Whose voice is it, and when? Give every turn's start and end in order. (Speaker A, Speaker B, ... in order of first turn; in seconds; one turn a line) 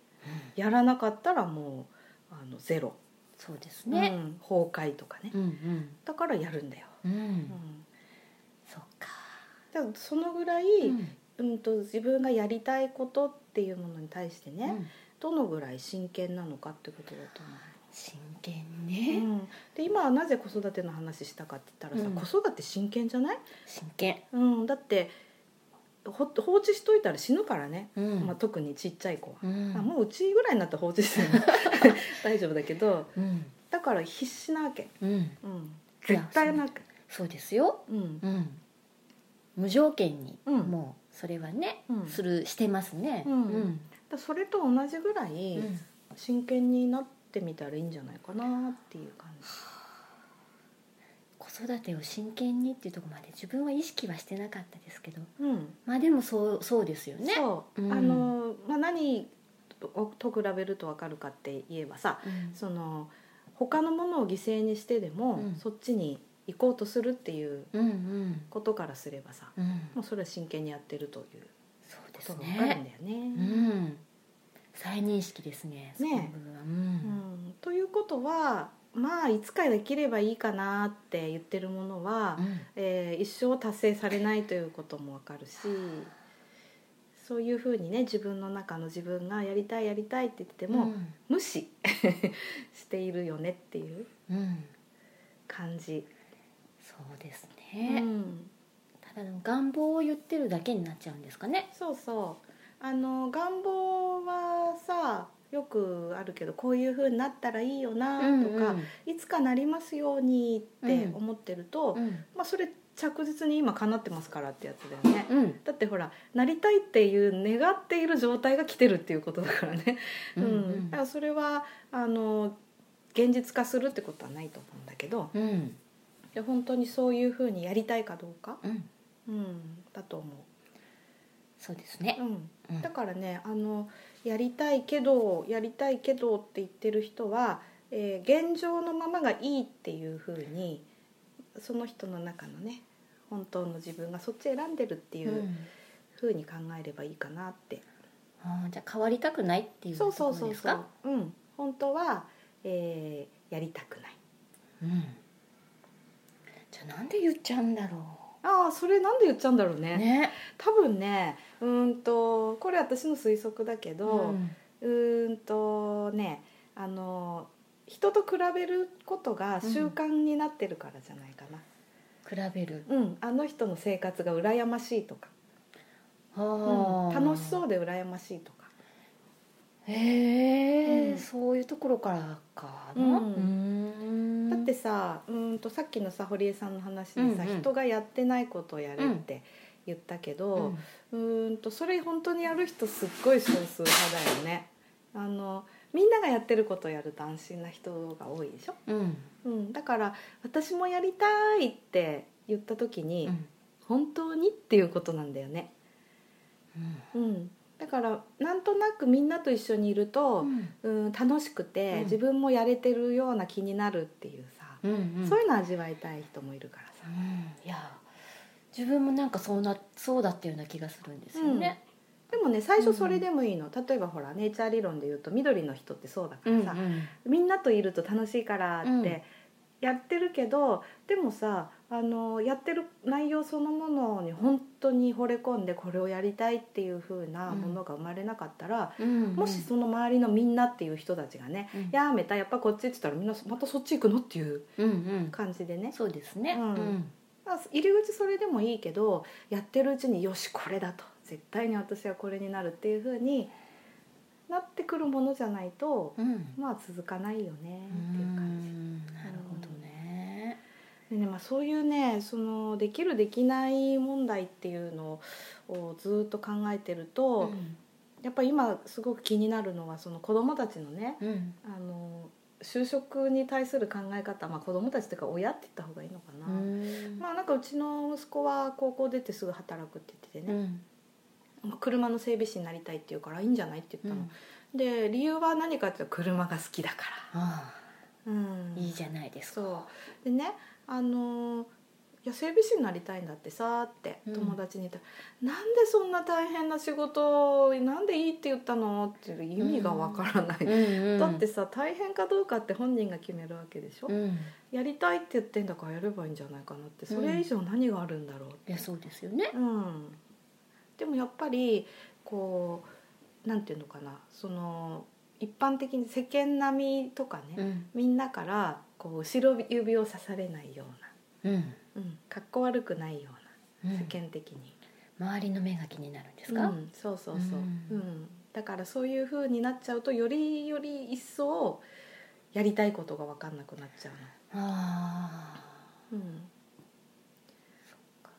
Speaker A: 0.6-3.0
Speaker B: 3.4-4.1
Speaker A: 3.9-5.3
Speaker B: 5.3-6.0
Speaker A: 6.1-6.9
Speaker B: 7.0-7.6
Speaker A: 7.5-7.8
Speaker B: 8.7-9.4
Speaker A: 9.7-17.7
Speaker B: 10.8-11.1
Speaker B: 17.7-19.2
Speaker A: 19.1-23.4
Speaker B: 21.9-22.2
Speaker B: 23.7-24.2
Speaker A: 24.3-25.1
Speaker A: 26.1-33.1
Speaker B: 28.0-28.4
Speaker B: 29.4-29.9
Speaker B: 31.2-31.7
Speaker B: 33.2-33.5
Speaker A: 33.7-36.9
Speaker B: 35.0-35.4
Speaker B: 36.0-38.6
Speaker A: 37.9-38.2
Speaker B: 39.6-43.9
Speaker A: 40.5-40.8
Speaker A: 41.9-42.2
Speaker A: 43.2-49.6
Speaker B: 45.5-45.8
Speaker B: 51.4-55.3
Speaker A: 55.4-55.8
Speaker B: 55.9-58.3
Speaker A: 57.2-59.3
Speaker A: 59.8-67.7
Speaker B: 62.2-62.6
Speaker B: 65.4-65.6
Speaker B: 67.7-68.5
Speaker A: 68.5-71.5
Speaker B: 69.6-70.0
Speaker B: 71.9-72.8
Speaker A: 72.2-73.7
Speaker B: 73.3-74.0
Speaker B: 74.7-77.2
Speaker A: 76.0-76.4
Speaker A: 77.0-86.1
Speaker B: 82.4-82.7
Speaker A: 87.2-94.1
Speaker B: 90.7-91.2
Speaker B: 94.3-94.7
Speaker A: 95.5-96.1
Speaker B: 96.8-98.1
Speaker A: 97.8-98.5
Speaker B: 99.0-101.7
Speaker A: 101.8-122.6
Speaker B: 108.2-108.9
Speaker B: 110.8-111.2
Speaker B: 111.9-112.2
Speaker B: 115.3-115.6
Speaker B: 120.4-121.0
Speaker A: 123.1-125.3
Speaker B: 125.3-125.8
Speaker A: 126.3-128.6
Speaker B: 128.6-128.9
Speaker A: 129.3-130.5
Speaker B: 131.6-132.9
Speaker A: 132.2-140.8
Speaker A: 141.6-145.5
Speaker B: 145.2-145.7
Speaker A: 146.2-147.8
Speaker B: 148.4-150.8
Speaker A: 149.9-154.2
Speaker B: 154.8-155.2
Speaker B: 156.7-158.3
Speaker A: 158.4-171.6
Speaker B: 159.9-160.4
Speaker B: 164.1-164.6
Speaker B: 169.6-169.9
Speaker B: 172.2-172.9
Speaker A: 172.9-175.3
Speaker B: 176.3-177.6
Speaker A: 176.6-178.7
Speaker B: 179.9-184.7
Speaker A: 180.8-181.2
Speaker A: 182.9-183.5
Speaker A: 184.5-198.8
Speaker B: 187.2-187.7
Speaker B: 190.6-190.8
Speaker B: 198.9-199.3
Speaker A: 199.4-205.7
Speaker B: 206.8-207.1
Speaker A: 207.1-217.1
Speaker B: 210.4-210.7
Speaker B: 214.8-215.4
Speaker B: 217.1-218.0
Speaker B: 218.7-221.8
Speaker A: 221.4-221.8
Speaker A: 222.3-229.3
Speaker B: 222.8-223.2
Speaker B: 226.4-227.1
Speaker B: 228.8-229.2
Speaker A: 229.8-244.7
Speaker B: 237.5-237.8
Speaker B: 239.0-239.7
Speaker B: 244.8-245.4
Speaker A: 245.3-246.0
Speaker B: 245.9-247.1
Speaker A: 246.5-253.5
Speaker A: 254.5-258.7
Speaker B: 256.2-256.6
Speaker B: 257.9-260.6
Speaker A: 259.2-259.8
Speaker A: 261.1-267.6
Speaker B: 267.4-267.8
Speaker A: 268.2-280.6
Speaker B: 271.2-271.6
Speaker B: 276.4-277.2
Speaker B: 280.5-280.8
Speaker A: 281.6-287.3
Speaker B: 284.0-284.3
Speaker B: 287.3-287.8
Speaker A: 288.2-289.0
Speaker B: 288.8-289.9
Speaker A: 289.5-291.7
Speaker A: 292.2-304.1
Speaker B: 294.3-294.6
Speaker B: 299.6-301.4
Speaker B: 304.1-304.5
Speaker A: 304.7-308.8
Speaker B: 307.1-307.4
Speaker B: 308.7-309.5
Speaker A: 309.5-310.2
Speaker A: 311.0-312.9
Speaker A: 313.4-321.1
Speaker B: 317.6-317.9
Speaker B: 321.4-321.8
Speaker A: 321.9-324.8
Speaker B: 323.8-324.1
Speaker B: 325.2-326.8
Speaker A: 326.5-331.9
Speaker B: 327.3-328.0
Speaker A: 332.5-334.3
Speaker B: 334.5-335.8
Speaker A: 336.1-336.5